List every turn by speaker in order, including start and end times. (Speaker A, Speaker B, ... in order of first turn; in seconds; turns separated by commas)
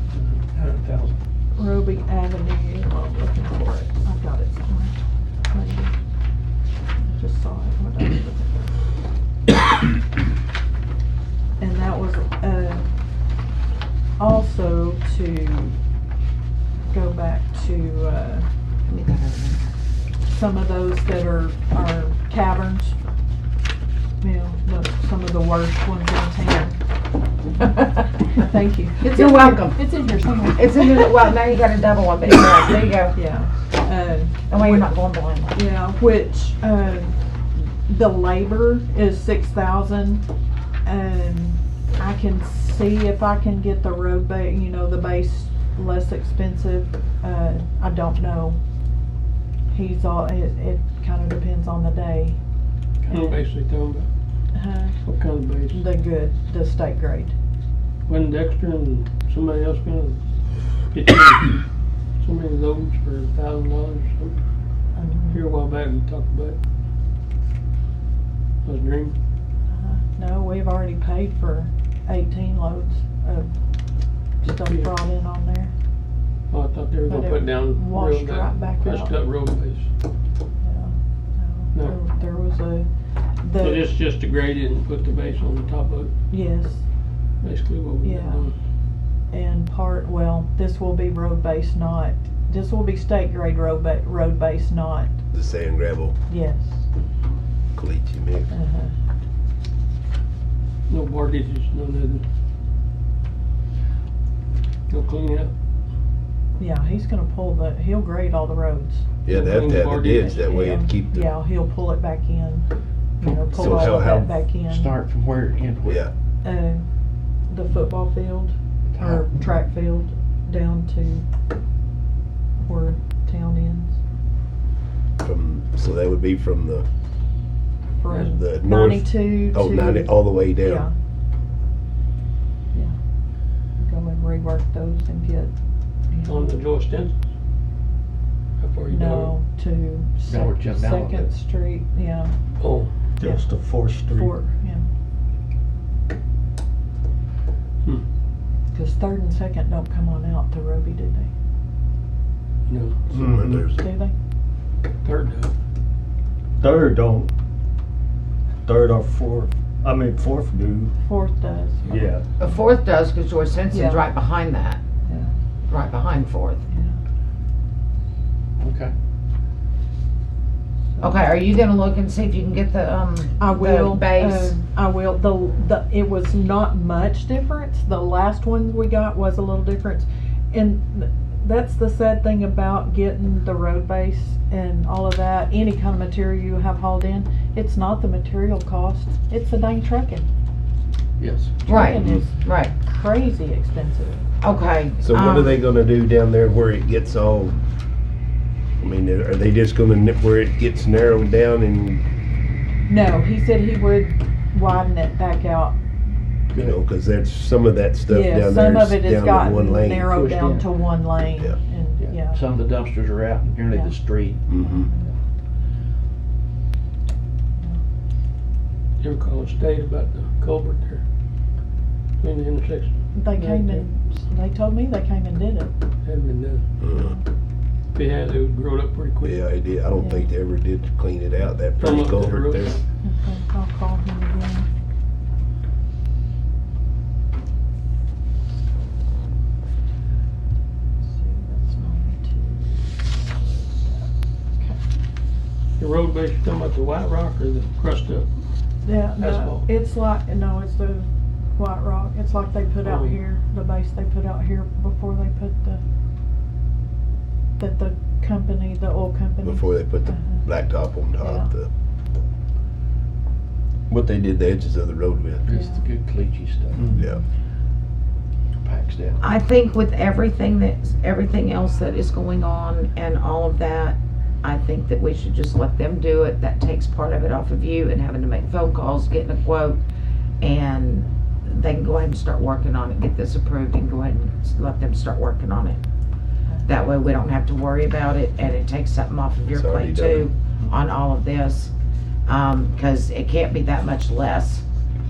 Speaker A: 0.1-1.2, Speaker B: 1.6-5.9, Speaker B: 7.1-8.7, Speaker B: 11.6-12.9, Speaker B: 14.2-15.8, Speaker B: 16.9-18.5, Speaker C: 18.9-19.7, Speaker B: 20.3-22.9, Speaker B: 24.2-26.8, Speaker B: 28.3-31.1, Speaker C: 29.0-33.2, Speaker B: 32.2-34.9, Speaker C: 34.5-35.6, Speaker B: 35.5-40.3, Speaker B: 40.8-48.6, Speaker B: 49.7-52.4, Speaker D: 53.1-54.1, Speaker B: 54.5-55.0, Speaker D: 55.0-55.8, Speaker B: 55.7-57.3, Speaker D: 58.1-60.2, Speaker D: 60.9-61.6, Speaker D: 62.2-64.4, Speaker B: 65.0-65.4, Speaker D: 65.3-66.6, Speaker D: 68.7-69.2, Speaker B: 69.7-73.5, Speaker B: 74.4-75.7, Speaker D: 74.7-74.9, Speaker D: 76.5-79.9, Speaker B: 77.1-79.2, Speaker B: 80.6-82.9, Speaker B: 83.4-83.8, Speaker D: 83.6-86.1, Speaker B: 86.3-86.8, Speaker D: 87.4-88.5, Speaker B: 88.0-88.5, Speaker B: 89.3-95.1, Speaker E: 95.3-96.2, Speaker B: 96.3-96.8, Speaker E: 97.8-98.5, Speaker B: 98.5-98.9, Speaker D: 100.9-102.2, Speaker D: 104.9-105.5, Speaker B: 106.6-109.0, Speaker E: 109.2-111.3, Speaker D: 109.3-110.7, Speaker B: 110.5-112.7, Speaker B: 113.2-114.9, Speaker A: 113.2-114.0, Speaker E: 113.6-114.3, Speaker A: 114.7-116.1, Speaker E: 115.9-116.1, Speaker B: 116.4-116.8, Speaker B: 117.5-121.2, Speaker A: 118.9-119.3, Speaker B: 122.7-124.0, Speaker E: 125.2-126.9, Speaker B: 128.0-130.9, Speaker E: 128.3-130.9, Speaker B: 133.8-135.5, Speaker B: 136.1-136.6, Speaker D: 136.3-137.2, Speaker D: 138.6-139.3, Speaker B: 138.9-142.3, Speaker A: 140.3-141.3, Speaker D: 142.6-142.9, Speaker F: 143.2-144.4, Speaker B: 144.1-144.8, Speaker B: 148.7-151.3, Speaker D: 152.7-153.0, Speaker E: 153.1-153.8, Speaker F: 153.2-153.6, Speaker B: 153.8-154.1, Speaker D: 155.0-155.5, Speaker F: 156.6-157.3, Speaker F: 158.7-160.9, Speaker B: 161.0-162.1, Speaker F: 161.8-162.3, Speaker C: 162.4-164.8, Speaker B: 163.7-164.1, Speaker B: 165.1-165.3, Speaker C: 165.7-166.6, Speaker B: 166.7-166.9, Speaker A: 168.6-168.9, Speaker C: 171.0-174.6, Speaker B: 173.4-190.3, Speaker A: 191.2-191.6, Speaker C: 191.7-192.7, Speaker B: 191.7-194.2, Speaker C: 194.4-195.6, Speaker E: 195.0-197.6, Speaker E: 198.8-202.0, Speaker B: 202.9-205.8, Speaker A: 206.5-206.8, Speaker E: 206.6-210.2, Speaker B: 208.1-212.4, Speaker A: 210.1-210.7, Speaker A: 212.0-214.5, Speaker E: 214.5-214.9, Speaker B: 214.6-215.1, Speaker D: 219.0-221.0, Speaker D: 222.2-223.8, Speaker B: 223.2-225.7, Speaker D: 226.1-226.6, Speaker E: 226.8-227.2, Speaker B: 226.9-227.2, Speaker D: 227.9-229.4, Speaker E: 229.2-232.8, Speaker B: 230.0-230.3, Speaker D: 231.8-232.8, Speaker B: 233.0-234.7, Speaker B: 241.1-244.8, Speaker D: 245.8-248.3, Speaker B: 248.8-255.8, Speaker D: 249.2-249.7, Speaker D: 252.8-253.2, Speaker B: 257.6-260.4, Speaker E: 259.4-261.7, Speaker B: 261.2-261.5, Speaker E: 263.9-265.5, Speaker A: 265.4-266.9, Speaker B: 265.5-265.8, Speaker E: 267.0-267.2, Speaker A: 268.6-269.2, Speaker C: 269.2-279.8, Speaker C: 280.4-285.8, Speaker C: 286.6-291.7, Speaker E: 289.5-290.3, Speaker C: 292.3-294.6